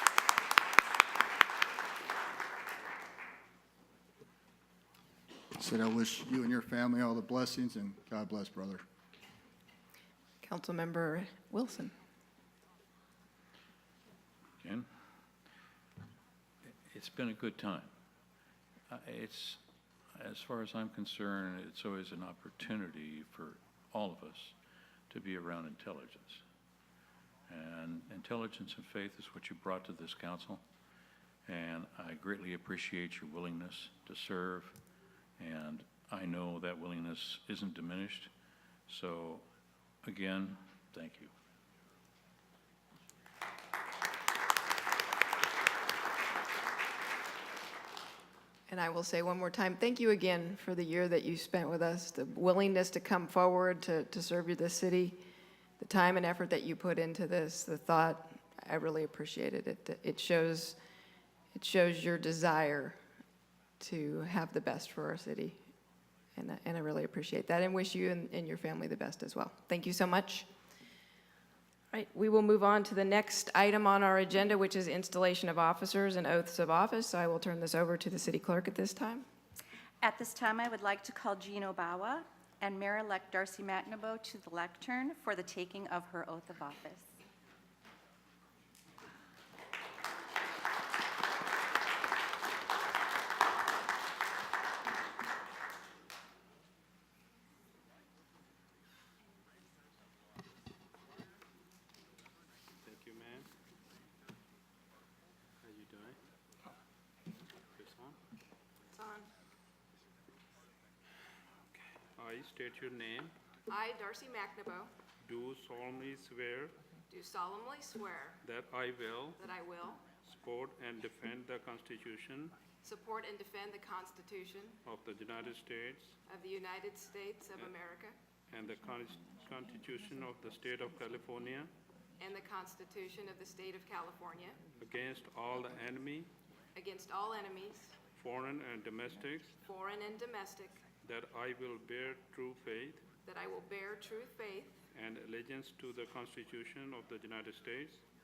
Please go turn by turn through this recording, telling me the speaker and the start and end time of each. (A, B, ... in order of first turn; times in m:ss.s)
0:05.6-0:08.8 A
0:10.4-0:11.9 B
0:14.6-0:14.9 C
0:16.6-0:17.9 C
0:18.9-0:19.6 C
0:20.2-0:24.5 C
0:25.1-0:26.4 C
0:27.5-0:30.6 C
0:31.5-0:34.8 C
0:35.4-0:38.3 C
0:38.9-0:39.4 C
0:40.0-0:41.3 C
0:48.7-0:55.2 B
0:55.8-1:00.8 B
1:01.5-1:03.0 B
1:03.8-1:05.6 B
1:06.4-1:10.5 B
1:11.9-1:19.2 B
1:20.0-1:27.0 D
1:42.8-1:43.5 E
1:45.6-1:46.2 E
1:47.8-1:48.2 E
1:48.9-1:49.3 F
1:52.2-1:53.3 E
1:53.7-1:54.9 F
1:55.2-1:56.8 E
1:57.1-1:58.4 F
1:58.4-1:59.4 E
1:59.4-2:00.0 F
2:00.3-2:02.6 E
2:02.8-2:04.8 F
2:04.8-2:06.2 E
2:06.3-2:08.2 F
2:08.5-2:11.7 E
2:12.2-2:14.7 F
2:14.8-2:16.3 E
2:16.8-2:18.0 F
2:18.2-2:19.5 E
2:19.6-2:20.8 F
2:21.0-2:23.1 E
2:23.2-2:24.8 F
2:24.9-2:28.0 E